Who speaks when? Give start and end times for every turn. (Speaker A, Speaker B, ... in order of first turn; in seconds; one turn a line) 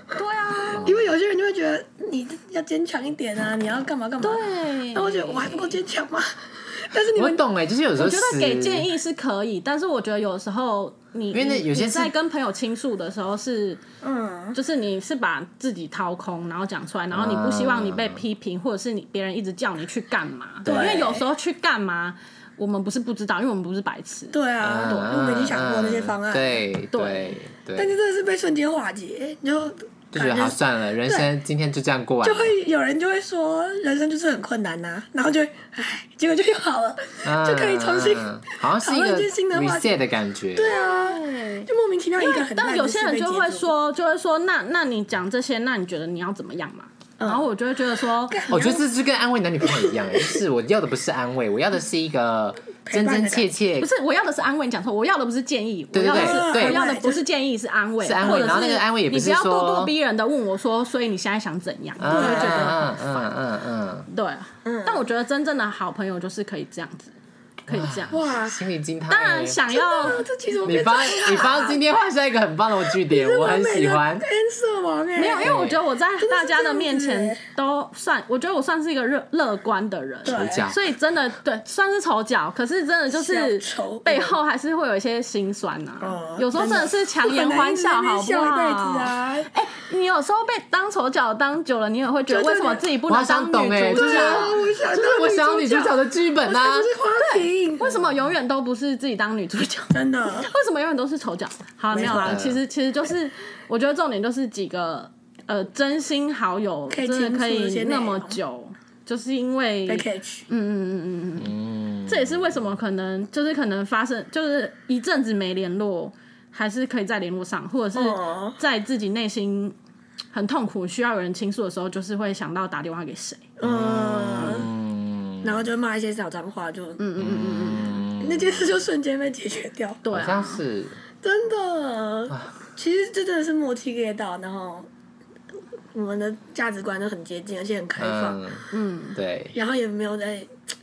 Speaker A: 0.1-0.9
Speaker B: 0.7-1.1
Speaker C: 0.8-7.4
Speaker A: 4.2-5.8
Speaker B: 7.1-8.9
Speaker A: 8.0-13.8
Speaker B: 11.3-12.1
Speaker C: 14.0-14.6
Speaker A: 14.5-24.4
Speaker B: 17.1-18.2
Speaker C: 20.6-21.2
Speaker B: 20.7-21.0
Speaker C: 24.3-26.5
Speaker B: 24.6-27.9
Speaker A: 26.9-27.4
Speaker C: 27.8-31.3
Speaker B: 30.1-32.5
Speaker C: 32.2-40.0
Speaker B: 37.2-40.8
Speaker C: 40.5-43.7
Speaker A: 40.7-48.4
Speaker C: 47.2-47.5
Speaker C: 48.3-48.8
Speaker B: 48.5-53.9
Speaker C: 49.6-50.4
Speaker C: 52.9-53.5
Speaker A: 53.8-63.2
Speaker B: 55.9-56.8
Speaker C: 56.0-57.2
Speaker B: 58.0-59.9
Speaker C: 58.2-58.6
Speaker B: 62.0-64.1
Speaker C: 62.1-62.8
Speaker A: 64.1-67.1
Speaker C: 64.6-65.0
Speaker A: 67.7-68.3
Speaker B: 67.7-74.3
Speaker C: 68.1-68.6
Speaker A: 69.1-70.2
Speaker C: 69.7-71.8
Speaker C: 72.9-75.6
Speaker A: 75.2-94.6
Speaker B: 75.4-75.8
Speaker C: 76.2-77.4
Speaker C: 80.2-80.7
Speaker B: 80.2-80.8
Speaker C: 83.1-84.4
Speaker C: 86.0-89.5
Speaker C: 92.3-92.8
Speaker B: 93.1-96.9
Speaker C: 93.9-98.0
Speaker A: 97.2-111.5
Speaker C: 99.9-100.5
Speaker C: 101.9-102.4
Speaker B: 102.0-102.6
Speaker C: 106.9-108.4
Speaker C: 109.9-110.5
Speaker B: 111.4-112.7
Speaker A: 112.1-119.7
Speaker C: 117.9-118.6
Speaker A: 120.3-123.5
Speaker C: 123.6-124.7
Speaker B: 123.6-125.6
Speaker C: 125.4-127.0
Speaker A: 127.0-128.0
Speaker B: 127.2-128.8
Speaker C: 128.2-130.0
Speaker A: 130.0-130.6
Speaker B: 130.1-131.0
Speaker C: 131.2-134.9
Speaker C: 135.9-138.4
Speaker B: 138.0-139.5
Speaker A: 138.7-139.2
Speaker C: 139.5-140.5